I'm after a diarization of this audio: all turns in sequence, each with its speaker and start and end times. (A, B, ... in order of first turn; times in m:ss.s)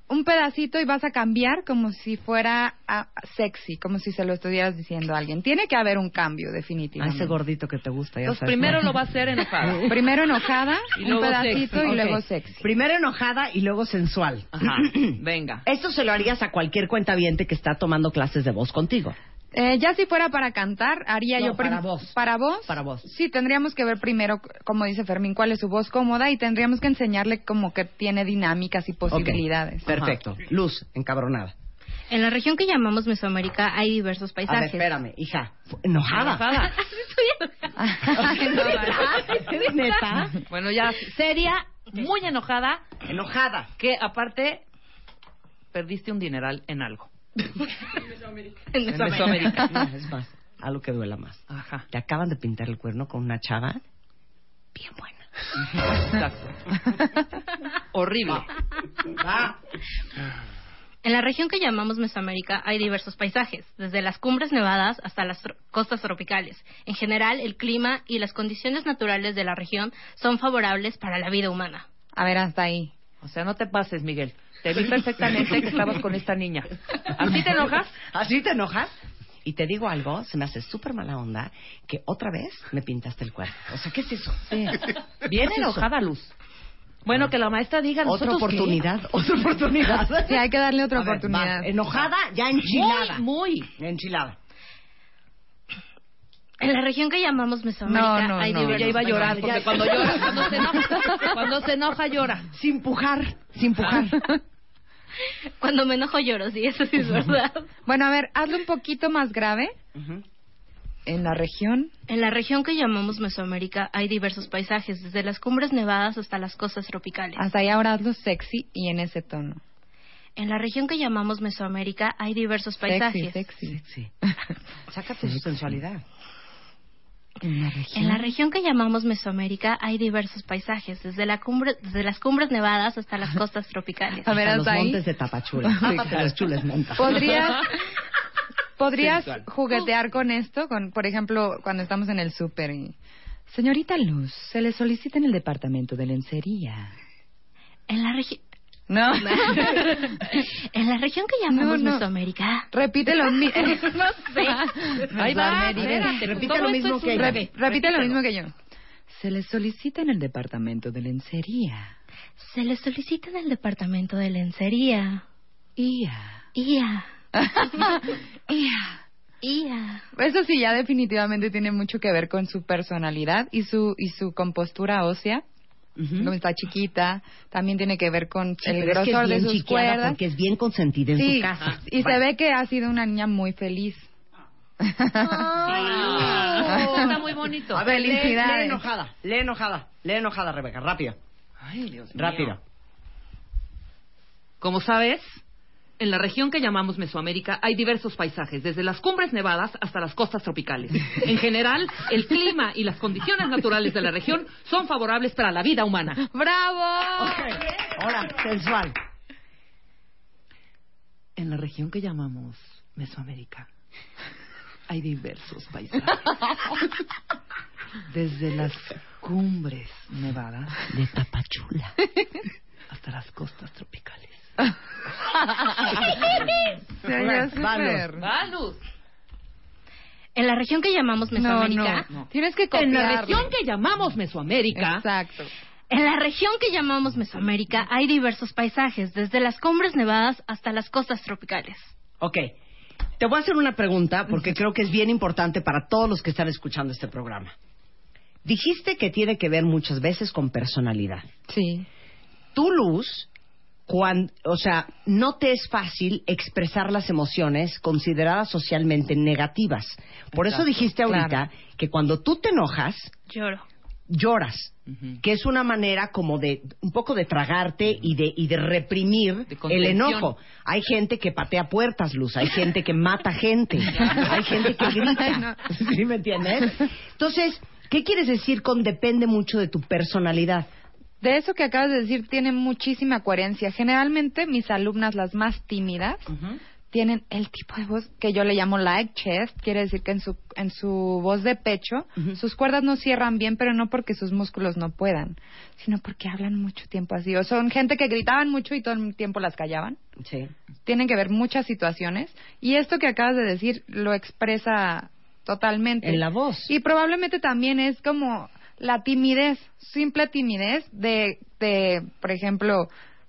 0:00.1-0:07.4 A
0:07.0-0:09.0 B
0:08.2-0:10.0 C
0:09.9-0:12.7 A
0:11.0-0:12.1 C
0:11.8-0:19.2 B
0:14.6-0:15.6 C
0:19.5-0:29.9 A
0:21.4-0:22.2 B
0:22.7-0:23.1 B
0:29.1-0:31.5 B
0:32.1-0:34.9 D
0:34.5-0:36.5 B
0:36.1-0:36.8 C
0:36.8-0:40.2 D
0:37.8-0:38.9 A
0:38.2-0:40.4 B
0:40.5-0:42.8 C
0:43.0-0:43.7 B
0:43.8-0:44.6 C
0:45.7-0:47.1 C
0:48.7-0:49.7 D
0:48.9-0:49.8 C
0:49.1-0:53.8 B
0:51.5-0:51.9 C
0:54.8-0:55.2 B
0:55.8-0:56.6 C
0:57.9-0:58.5 C
0:59.1-0:59.6 B
1:01.0-1:11.9 D
1:12.2-1:12.9 A
1:13.2-1:18.0 C
1:17.2-1:17.4 B
1:18.1-1:18.9 B
1:19.4-1:25.9 B
1:24.5-1:26.3 C
1:27.0-1:28.8 C
1:28.0-1:33.2 B
1:30.2-1:31.7 A
1:32.6-1:33.7 C
1:33.8-1:34.4 B
1:36.6-1:39.3 D
1:37.9-1:39.1 A
1:38.6-1:42.5 C
1:39.1-1:41.1 B
1:42.5-1:44.2 B
1:43.9-1:44.4 A
1:45.6-1:47.7 D
1:47.9-1:49.8 A
1:50.0-1:50.2 B
1:51.1-1:51.9 A
1:52.1-1:57.4 D
1:57.4-1:59.6 A
2:00.4-2:03.5 D
2:02.8-2:04.5 A
2:03.7-2:04.1 B
2:04.9-2:06.0 B
2:07.4-2:08.3 A
2:07.9-2:14.4 D
2:14.3-2:15.0 A
2:14.3-2:17.4 B
2:15.8-2:16.0 A
2:17.0-2:17.8 A
2:18.8-2:23.0 A
2:19.0-2:19.4 C
2:23.5-2:26.9 A
2:27.9-2:28.4 D
2:28.9-2:30.2 A
2:29.2-2:35.1 D
2:31.5-2:32.1 A
2:32.7-2:36.5 A
2:35.2-2:38.2 C
2:35.2-2:37.4 B
2:37.2-2:38.5 A
2:39.1-2:41.9 A
2:42.4-2:45.2 D
2:45.8-2:46.5 A
2:46.6-2:47.1 D
2:47.4-2:49.0 A
2:49.4-2:50.0 D
2:50.2-2:55.4 A
2:56.0-2:56.3 B
2:56.2-3:00.2 A
2:58.6-3:02.2 B
3:01.2-3:04.1 A
3:04.8-3:07.1 A
3:05.2-3:11.2 B
3:05.7-3:07.9 C
3:07.8-3:08.8 A
3:11.6-3:12.6 C
3:12.1-3:12.6 B
3:14.6-3:15.4 C
3:16.0-3:26.2 C
3:26.3-3:27.5 A
3:27.2-3:29.0 B
3:31.4-3:33.7 C
3:34.9-3:36.4 C
3:38.1-3:40.8 C
3:40.9-3:42.0 B
3:42.9-3:44.5 C
3:45.8-3:46.3 A
3:47.0-3:48.3 A
3:47.1-3:48.1 B
3:48.2-3:48.8 C
3:50.4-3:52.1 D
3:51.4-3:53.5 A
3:52.1-3:55.1 C
3:54.8-3:55.5 A
3:55.9-4:01.9 D
4:02.2-4:02.5 B
4:03.2-4:07.5 B
4:08.4-4:11.3 B
4:11.5-4:11.9 A
4:12.5-4:13.3 B
4:13.9-4:23.1 B
4:20.4-4:20.7 C
4:21.1-4:21.4 A
4:23.3-4:23.6 D
4:24.1-4:40.7 B
4:24.9-4:25.2 C
4:29.5-4:30.3 C
4:33.9-4:34.3 C
4:34.9-4:35.6 A
4:41.2-4:46.3 A
4:46.3-4:46.6 B
4:46.9-5:00.0 A
5:00.2-5:00.5 B
5:00.9-5:12.9 A
5:06.0-5:06.7 B